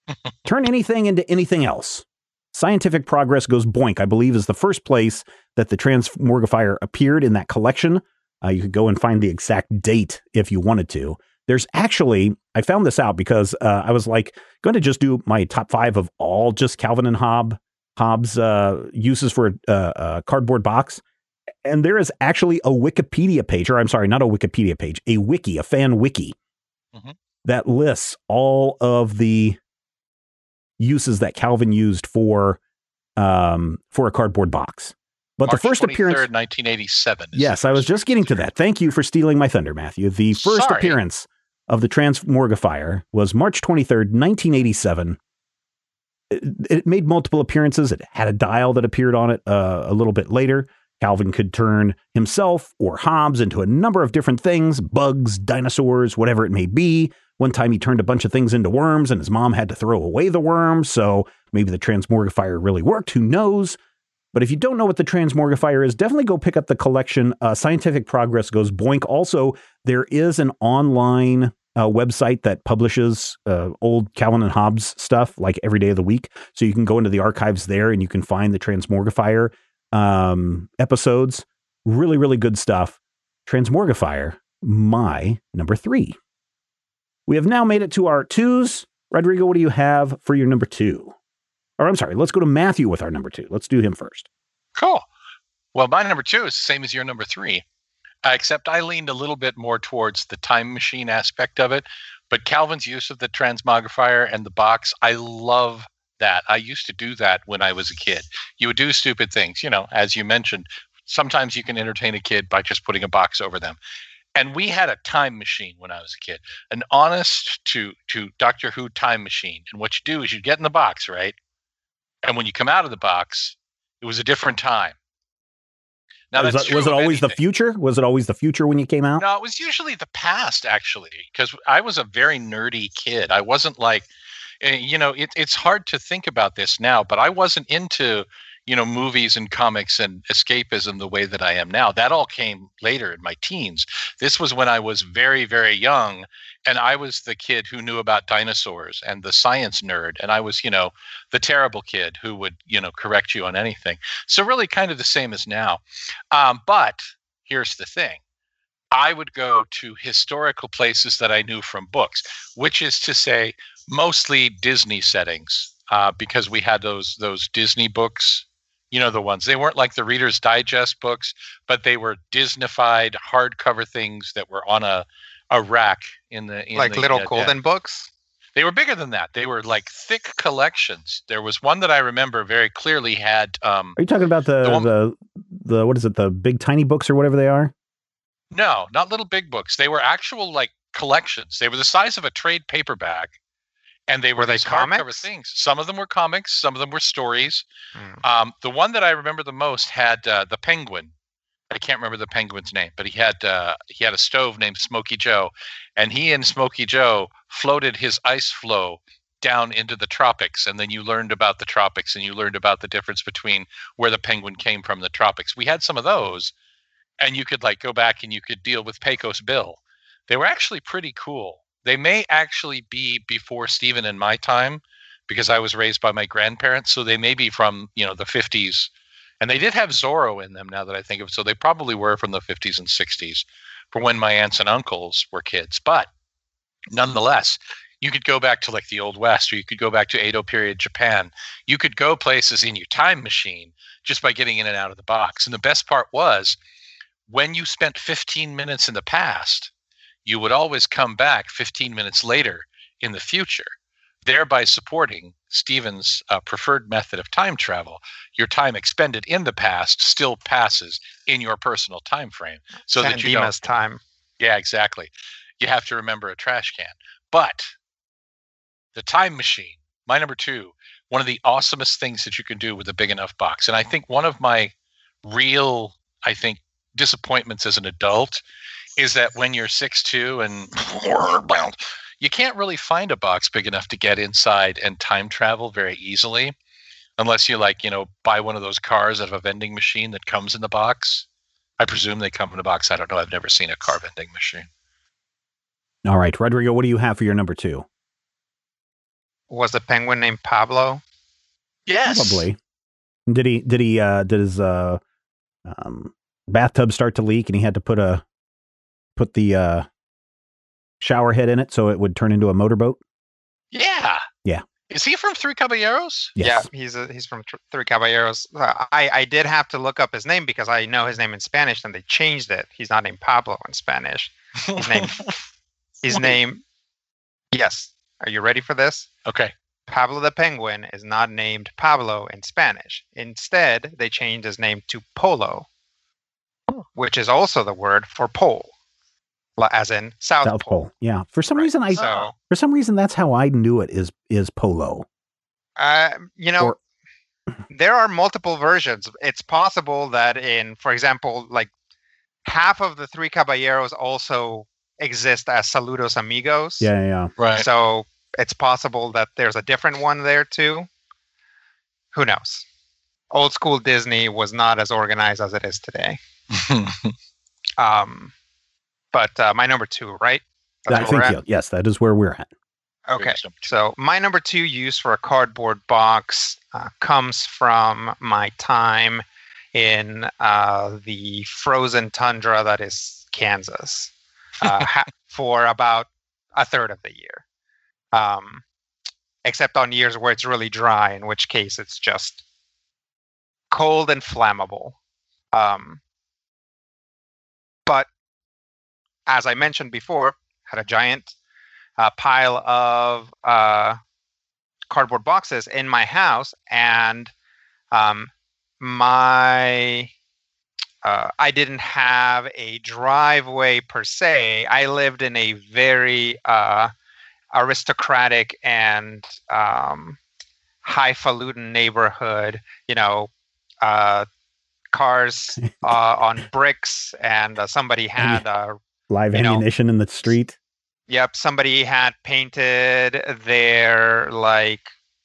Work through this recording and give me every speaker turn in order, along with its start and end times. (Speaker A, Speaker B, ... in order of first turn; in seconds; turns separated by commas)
Speaker A: 0.5-21.0, Speaker A: 21.6-26.3, Speaker A: 27.4-29.6, Speaker A: 30.8-32.6, Speaker A: 33.2-36.2, Speaker B: 35.4-38.4, Speaker A: 37.3-45.2, Speaker B: 40.3-41.0, Speaker A: 46.3-63.8, Speaker A: 64.3-86.2, Speaker A: 87.3-91.1, Speaker A: 91.8-94.3, Speaker B: 94.8-95.0, Speaker B: 95.7-97.6, Speaker B: 98.2-113.8, Speaker B: 114.3-121.3, Speaker B: 122.2-125.0, Speaker B: 126.3-127.4, Speaker A: 126.3-129.2, Speaker B: 129.2-134.1, Speaker B: 134.6-158.2, Speaker B: 158.9-177.5, Speaker C: 176.8-178.1, Speaker B: 178.6-184.0, Speaker A: 184.0-187.7, Speaker B: 184.6-184.9, Speaker B: 188.5-193.3, Speaker B: 194.1-197.6, Speaker C: 194.4-195.3, Speaker C: 197.9-198.2, Speaker B: 198.2-201.1, Speaker B: 201.7-216.5, Speaker B: 217.2-228.9, Speaker B: 229.4-236.1, Speaker B: 236.9-246.6, Speaker B: 247.3-249.7, Speaker B: 250.2-253.7, Speaker B: 254.2-263.7, Speaker C: 263.0-264.0, Speaker B: 264.4-267.7, Speaker B: 268.9-274.7, Speaker B: 275.2-278.4, Speaker B: 279.0-286.5, Speaker B: 287.2-291.2, Speaker B: 291.8-294.7, Speaker A: 296.0-297.9, Speaker C: 299.5-301.0, Speaker B: 301.9-302.5, Speaker A: 302.0-302.6, Speaker A: 303.3-305.0, Speaker A: 305.6-308.2, Speaker A: 309.1-309.9, Speaker A: 311.0-313.0, Speaker B: 313.7-314.2, Speaker B: 314.9-316.3, Speaker A: 316.4-316.7, Speaker C: 316.4-325.2, Speaker B: 324.7-325.3, Speaker C: 326.0-326.6, Speaker C: 327.5-329.1, Speaker B: 329.2-329.5, Speaker C: 329.9-335.6, Speaker C: 336.9-338.7, Speaker C: 339.6-340.8, Speaker A: 340.4-345.1, Speaker C: 341.5-342.3, Speaker B: 342.0-342.3, Speaker C: 345.8-346.8, Speaker C: 347.7-351.7, Speaker C: 352.4-356.9, Speaker A: 356.8-357.3, Speaker B: 357.4-357.6, Speaker C: 357.5-360.9, Speaker C: 362.1-362.6, Speaker C: 363.3-366.2, Speaker B: 366.5-367.1, Speaker C: 367.8-368.3, Speaker C: 369.1-371.4, Speaker A: 370.9-372.5, Speaker C: 373.1-387.4, Speaker B: 373.1-373.7, Speaker C: 388.1-388.6, Speaker C: 389.4-392.4, Speaker C: 393.7-394.9, Speaker C: 395.5-396.0, Speaker C: 399.3-401.4, Speaker C: 402.0-404.0, Speaker C: 404.9-407.3, Speaker C: 407.9-410.1, Speaker C: 411.0-416.9, Speaker C: 417.5-420.2, Speaker C: 420.8-423.3, Speaker C: 423.8-424.2, Speaker C: 424.9-428.8, Speaker A: 425.6-425.9, Speaker A: 429.1-430.5, Speaker C: 429.3-429.6, Speaker C: 431.1-434.9